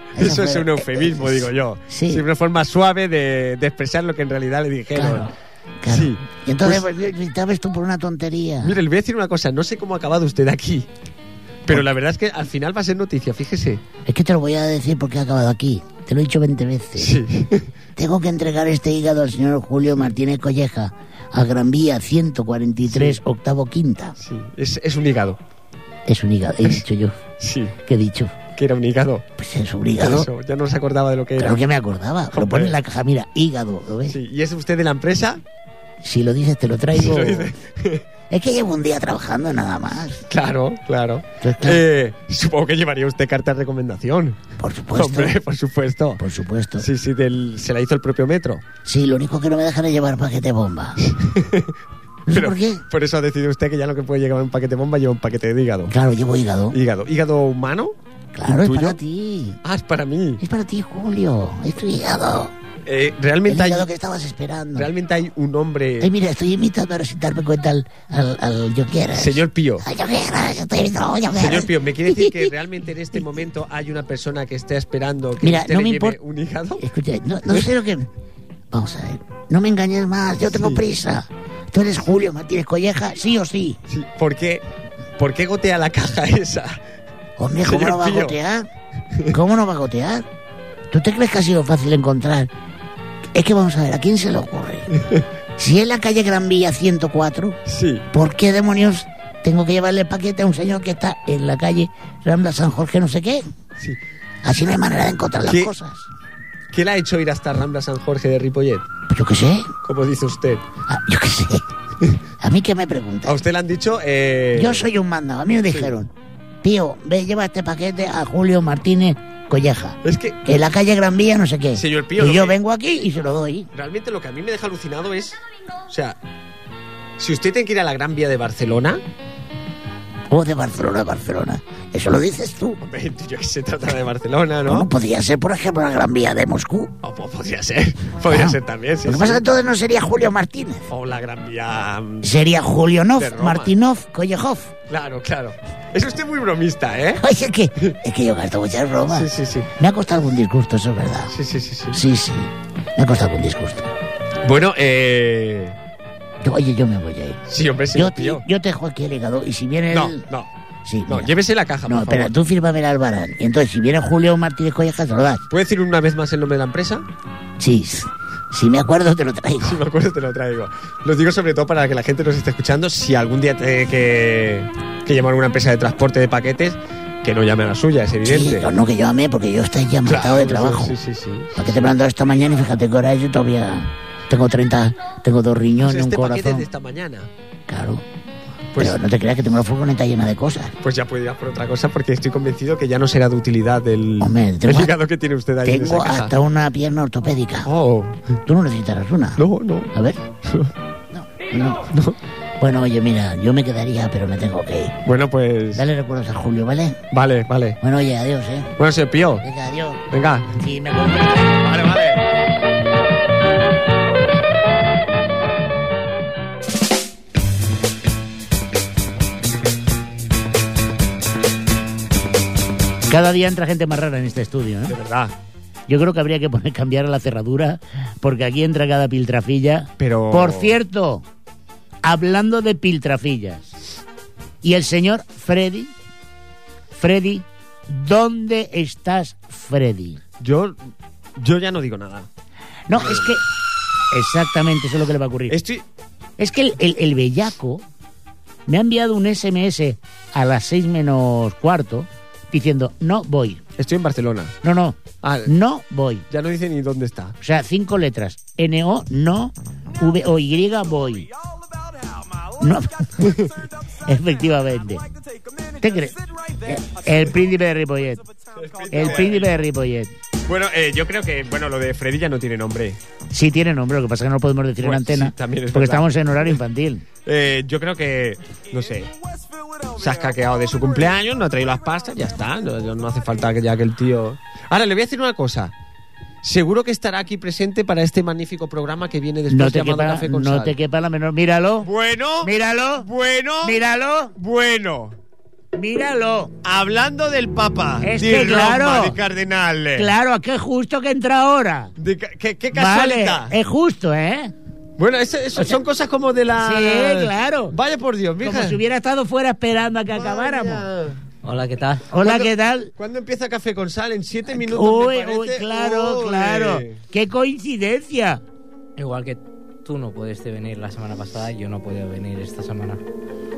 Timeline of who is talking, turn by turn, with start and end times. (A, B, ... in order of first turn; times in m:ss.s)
0:00.1-0:02.2 A
0:00.1-0:05.3 B
0:04.9-0:08.8 A
0:05.8-0:06.9 B
0:08.6-0:10.9 B
0:11.6-0:13.8 B
0:14.0-0:17.2 A
0:17.0-0:17.7 B
0:18.0-0:24.2 A
0:22.9-0:23.2 B
0:24.2-0:25.4 B
0:26.0-0:27.2 A
0:27.4-0:27.8 B
0:27.8-0:28.4 A
0:28.5-0:29.2 B
0:29.4-0:30.3 A
0:30.0-0:31.6 B
0:31.4-0:34.2 A
0:32.3-0:32.8 B
0:34.1-0:35.4 B
0:36.0-0:37.5 A
0:36.9-0:38.0 B
0:38.3-0:40.2 A
0:40.3-0:44.4 B
0:41.4-0:41.8 A
0:44.6-0:45.4 A
0:44.9-0:46.2 B
0:46.2-0:46.9 A
0:46.8-0:48.6 B
0:48.8-0:51.0 A
0:51.0-0:51.8 B
0:52.3-0:52.8 A
0:52.3-0:55.9 B
0:55.9-0:56.8 A
0:56.7-0:59.0 B
0:58.3-0:59.6 A
0:59.6-1:00.4 B
1:00.4-1:02.5 A
1:02.8-1:03.9 B
1:03.4-1:04.9 A
1:04.7-1:06.1 B
1:06.0-1:12.5 A
1:09.1-1:09.9 B
1:11.3-1:16.9 B
1:15.4-1:16.2 A
1:16.8-1:18.1 A
1:18.7-1:23.8 A
1:20.4-1:20.8 B
1:23.9-1:24.6 B
1:25.2-1:26.8 B
1:27.4-1:28.7 A
1:27.6-1:28.4 B
1:29.3-1:30.2 A
1:30.9-1:32.5 A
1:33.3-1:34.9 A
1:34.9-1:35.2 B
1:35.6-1:37.6 A
1:37.6-1:38.0 B
1:38.1-1:43.4 A
1:44.4-1:46.1 A
1:45.4-1:45.7 B
1:46.7-1:48.8 B
1:49.1-1:49.7 A
1:49.8-1:50.6 B
1:50.9-1:51.6 A
1:52.4-1:53.4 A
1:53.2-1:54.9 B
1:54.5-1:56.1 A
1:55.7-1:55.9 B
1:56.6-2:03.7 A
2:00.0-2:00.4 B
2:01.7-2:02.6 B
2:03.7-2:06.2 B
2:07.2-2:09.0 B
2:10.3-2:12.8 A
2:12.8-2:14.9 B
2:14.6-2:16.9 A
2:17.0-2:19.4 B
2:18.3-2:20.8 A
2:20.9-2:22.4 B
2:22.2-2:24.7 A
2:23.1-2:23.7 B
2:24.9-2:27.2 B
2:27.1-2:31.3 A
2:29.1-2:29.7 B
2:31.3-2:32.0 B
2:31.9-2:33.9 A
2:34.4-2:35.8 B
2:36.4-2:37.4 A
2:37.5-2:38.4 B
2:37.9-2:40.2 A
2:39.9-2:40.5 B
2:40.8-2:41.3 A
2:41.1-2:42.4 B
2:41.8-2:45.4 A
2:45.5-2:47.0 B
2:47.6-2:49.8 A
2:49.6-2:58.7 B
2:58.2-3:01.0 A
3:00.0-3:02.0 B
3:01.5-3:06.7 A
3:05.8-3:07.3 B
3:07.7-3:08.0 A
3:08.7-3:09.0 B
3:08.8-3:10.8 A
3:10.8-3:16.4 B
3:14.2-3:14.9 A
3:15.6-3:17.7 A
3:17.6-3:18.4 B
3:18.4-3:19.4 A
3:19.4-3:20.7 B
3:19.9-3:20.2 A
3:21.1-3:21.9 A
3:21.9-3:22.2 B
3:22.6-3:25.0 A
3:25.0-3:25.8 B
3:25.7-3:27.0 A
3:27.1-3:27.8 B
3:27.8-3:28.8 A
3:28.8-3:29.4 B
3:29.4-3:31.6 A
3:30.1-3:30.6 B
3:31.6-3:32.2 B
3:43.1-3:45.0 A
3:44.9-3:45.3 B
3:45.9-3:51.2 A
3:50.0-3:50.8 B
3:52.0-3:53.7 A
3:54.6-3:55.9 A
3:56.9-4:00.2 A
4:00.4-4:00.8 B
4:01.4-4:02.3 B
4:02.9-4:03.4 A
4:02.9-4:03.4 B
4:04.1-4:05.6 A
4:05.5-4:05.8 B
4:06.4-4:07.8 A
4:08.6-4:13.6 A
4:13.8-4:14.5 B
4:14.6-4:16.2 A
4:15.2-4:15.5 B
4:16.3-4:17.4 B
4:17.4-4:21.3 A
4:22.6-4:23.3 A
4:23.2-4:23.6 B
4:24.0-4:25.0 A
4:25.8-4:28.2 A
4:28.5-4:29.5 B
4:28.9-4:30.1 A
4:30.4-4:33.0 B
4:33.3-4:37.0 A
4:34.8-4:36.6 B
4:37.2-4:39.1 B
4:39.8-4:45.7 B
4:46.4-4:50.8 B
4:49.5-4:51.9 A
4:51.8-4:53.8 B
4:52.4-4:53.1 A
4:53.6-4:54.3 A
4:54.4-4:55.2 B
4:55.7-4:56.5 A
4:56.6-5:00.1 B
4:58.0-4:59.2 A
4:59.9-5:01.9 A
5:02.0-5:03.5 B
5:02.7-5:04.5 A
5:05.0-5:08.8 B
5:06.6-5:07.8 A
5:08.4-5:10.9 A
5:10.1-5:11.2 B
5:11.4-5:12.1 C
5:12.1-5:12.9 A
5:12.2-5:17.0 B
5:14.5-5:18.4 A
5:19.0-5:23.0 C